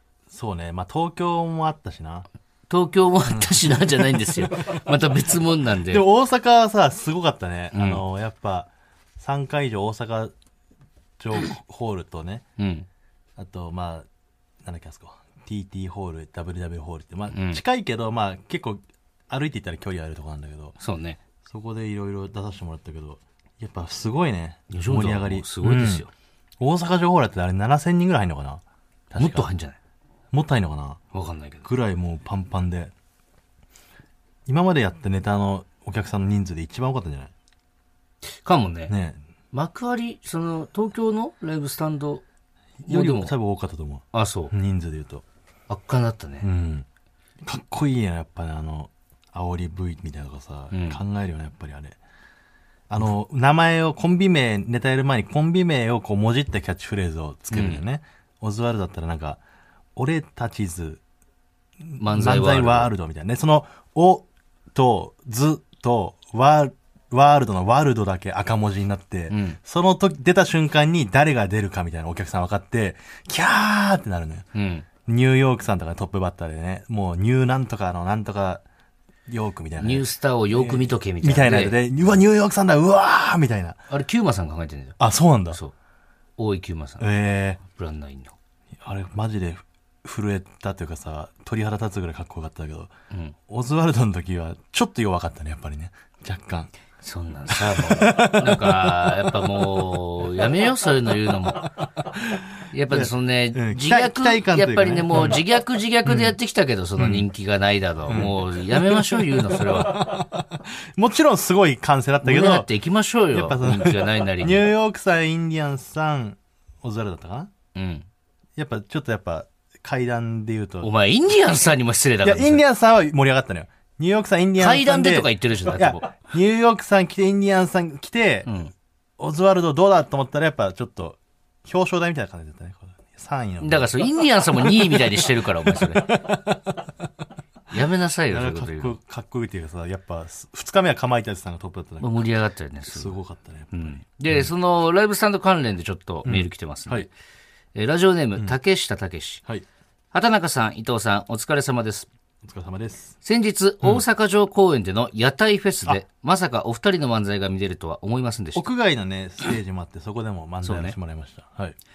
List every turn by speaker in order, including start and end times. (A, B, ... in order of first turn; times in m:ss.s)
0:00.3-0:02.3 A
0:02.7-0:06.0 B
0:03.2-0:10.3 A
0:07.7-0:08.0 B
0:11.2-0:12.4 A
0:12.6-0:12.9 B
0:13.4-0:14.1 A
0:14.6-0:20.8 A
0:17.3-0:17.6 B
0:20.8-0:21.2 B
0:21.4-0:26.1 A
0:24.7-0:26.1 B
0:26.6-0:29.5 A
0:29.2-0:29.8 B
0:30.3-0:31.0 A
0:31.1-0:31.7 B
0:31.6-0:32.9 A
0:34.5-0:37.3 A
0:38.4-0:38.9 B
0:38.9-0:39.2 A
0:39.5-0:42.2 B
0:42.8-0:43.3 B
0:42.9-0:45.2 A
0:44.1-0:44.5 B
0:45.7-0:46.5 B
0:46.4-0:46.9 A
0:47.4-0:52.0 A
0:50.7-0:51.0 B
0:52.9-0:59.4 A
0:57.5-0:57.8 B
1:00.0-1:01.0 A
1:01.8-1:14.5 A
1:02.0-1:02.9 B
1:09.3-1:09.6 B
1:14.6-1:14.9 B
1:15.1-1:18.6 A
1:19.3-1:23.8 A
1:19.8-1:21.8 B
1:23.9-1:25.0 B
1:25.0-1:25.6 A
1:26.4-1:27.1 B
1:27.0-1:27.6 A
1:27.6-1:28.4 B
1:28.8-1:32.9 A
1:33.5-1:36.7 A
1:37.0-1:41.7 B
1:37.5-1:40.6 A
1:41.5-1:45.4 A
1:42.7-1:50.2 B
1:46.0-1:46.4 A
1:47.0-1:47.3 A
1:48.1-1:52.7 A
1:52.2-1:54.7 B
1:53.3-1:57.5 A
1:57.8-1:58.1 B
1:58.6-2:00.9 A
2:00.8-2:02.6 B
2:02.2-2:08.6 A
2:04.6-2:06.1 B
2:08.5-2:08.7 B
2:09.2-2:16.9 A
2:13.6-2:16.1 B
2:17.7-2:19.0 B
2:18.3-2:22.3 A
2:22.0-2:23.2 B
2:22.9-2:24.5 A
2:23.7-2:27.1 B
2:26.2-2:27.1 A
2:27.8-2:29.4 B
2:30.1-2:32.1 B
2:32.4-2:33.2 A
2:33.2-2:38.6 B
2:38.6-2:41.8 A
2:40.6-2:41.0 B